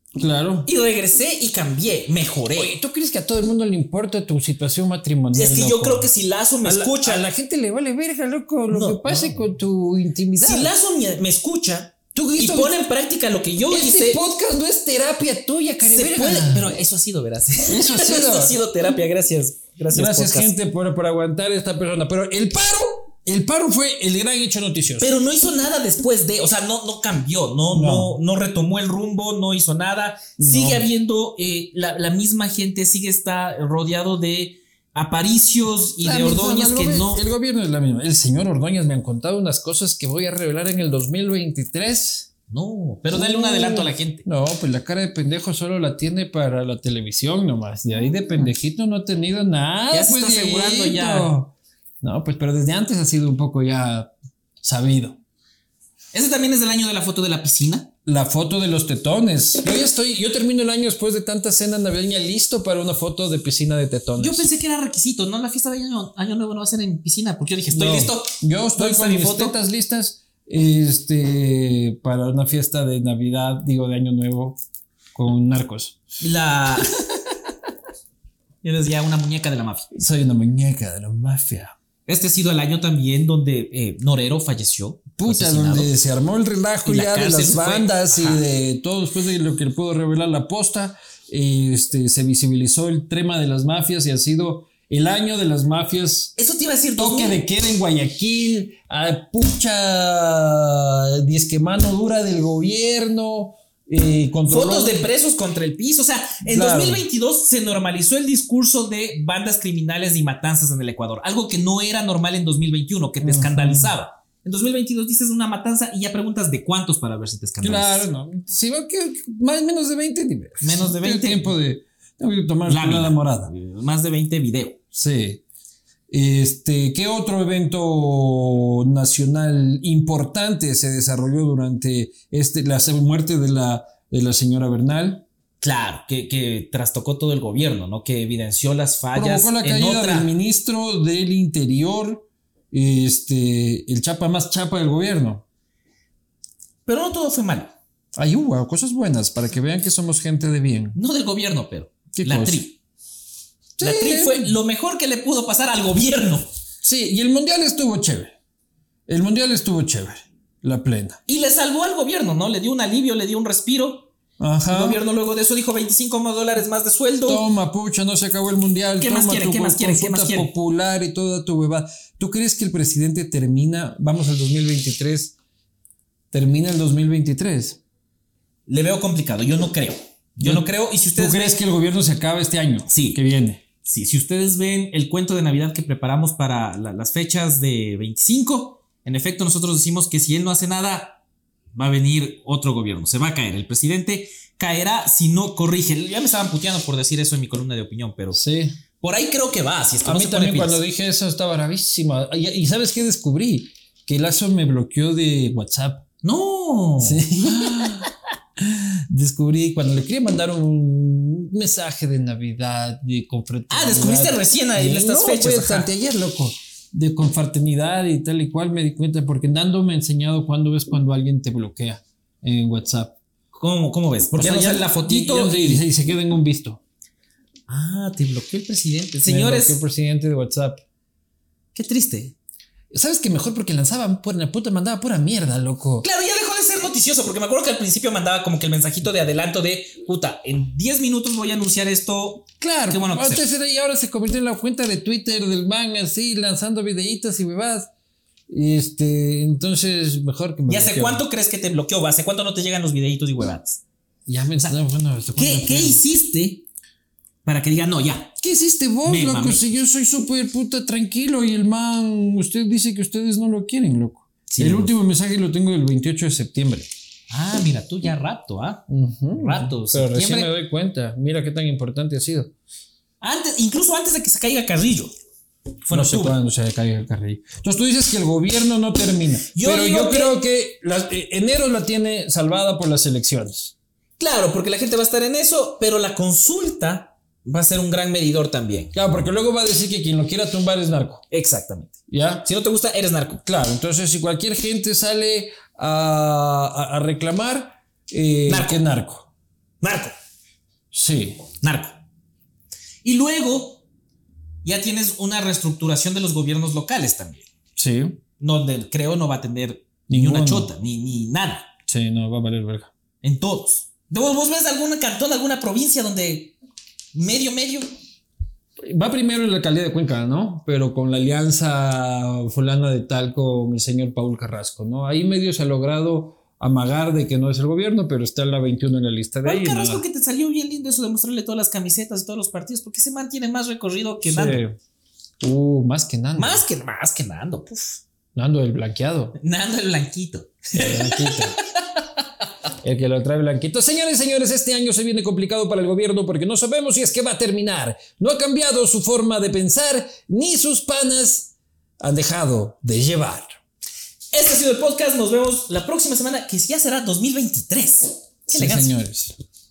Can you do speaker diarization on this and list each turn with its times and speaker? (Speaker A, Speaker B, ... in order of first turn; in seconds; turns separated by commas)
Speaker A: 0.2-0.7, Speaker B: 0.7-2.8, Speaker A: 2.5-6.1, Speaker B: 5.3-7.2, Speaker A: 6.6-10.7, Speaker B: 8.7-9.5, Speaker B: 10.3-14.2, Speaker A: 12.1-12.7, Speaker A: 13.7-16.7, Speaker B: 15.8-20.5, Speaker A: 17.7-18.6, Speaker A: 19.9-25.1, Speaker B: 25.0-37.2, Speaker A: 27.7-28.2, Speaker A: 30.4-30.9, Speaker A: 36.0-42.3, Speaker B: 42.5-44.2, Speaker A: 43.1-55.2, Speaker B: 49.9-51.3, Speaker B: 56.1-57.9, Speaker A: 58.0-64.5, Speaker B: 64.2-69.5, Speaker A: 67.7-74.6, Speaker A: 75.1-76.0, Speaker B: 76.2-76.9, Speaker B: 78.6-79.9, Speaker A: 79.9-81.7, Speaker B: 82.1-85.9, Speaker A: 85.2-96.3, Speaker B: 86.8-88.4, Speaker B: 96.3-97.4, Speaker A: 97.0-105.1, Speaker B: 104.5-118.0, Speaker A: 106.4-107.1, Speaker A: 113.2-114.0, Speaker A: 117.6-123.5, Speaker B: 120.6-121.6, Speaker B: 122.7-124.8, Speaker A: 124.9-125.4, Speaker A: 126.1-135.2, Speaker B: 135.6-140.3, Speaker A: 139.1-145.4, Speaker B: 146.8-147.7, Speaker A: 148.1-151.0, Speaker B: 150.9-152.8, Speaker A: 152.1-152.6, Speaker A: 153.8-154.5, Speaker B: 153.8-156.4, Speaker A: 156.8-158.3, Speaker A: 159.1-161.2, Speaker B: 161.3-164.1, Speaker A: 164.4-165.0, Speaker B: 164.7-167.4, Speaker A: 167.2-175.3, Speaker B: 169.0-170.5, Speaker A: 176.3-177.8, Speaker B: 178.7-181.6, Speaker A: 180.4-183.6, Speaker B: 182.9-183.2, Speaker B: 183.8-191.2, Speaker B: 191.7-198.4, Speaker A: 198.3-198.8, Speaker B: 199.0-200.8, Speaker A: 200.0-206.0, Speaker B: 206.2-208.1, Speaker A: 207.0-208.1, Speaker A: 208.6-223.2, Speaker B: 213.7-215.9, Speaker B: 223.5-225.8, Speaker A: 224.3-226.8, Speaker B: 227.7-229.8, Speaker A: 229.2-230.8, Speaker B: 231.7-232.3, Speaker A: 232.9-236.1, Speaker B: 236.0-243.4, Speaker A: 242.6-247.9, Speaker A: 248.5-251.2, Speaker B: 250.7-253.8, Speaker A: 254.3-256.0, Speaker B: 255.3-256.6, Speaker B: 257.4-258.4, Speaker A: 258.4-266.9, Speaker B: 259.0-259.7, Speaker B: 264.5-264.9, Speaker B: 267.3-268.8, Speaker A: 268.9-272.5, Speaker B: 269.3-270.5, Speaker B: 273.2-275.1, Speaker B: 275.8-276.4, Speaker A: 275.9-283.7, Speaker B: 279.5-280.4, Speaker B: 284.2-288.9, Speaker A: 288.9-291.2, Speaker B: 291.3-293.4, Speaker A: 292.1-292.5, Speaker A: 293.4-299.3, Speaker B: 298.5-298.8, Speaker B: 299.8-300.1, Speaker A: 300.9-301.4, Speaker B: 301.6-302.0, Speaker B: 303.0-303.8, Speaker B: 304.6-307.4, Speaker A: 307.8-308.2, Speaker B: 308.4-311.7, Speaker A: 310.1-310.7, Speaker A: 311.9-312.9, Speaker B: 313.2-316.5, Speaker B: 317.1-317.9, Speaker A: 318.9-330.0, Speaker B: 329.4-334.6, Speaker A: 334.2-334.8, Speaker A: 335.4-336.6, Speaker B: 336.4-338.0, Speaker A: 338.3-339.4, Speaker B: 339.4-342.0, Speaker A: 340.7-341.6, Speaker A: 342.8-353.6, Speaker B: 354.3-359.0, Speaker A: 358.5-359.4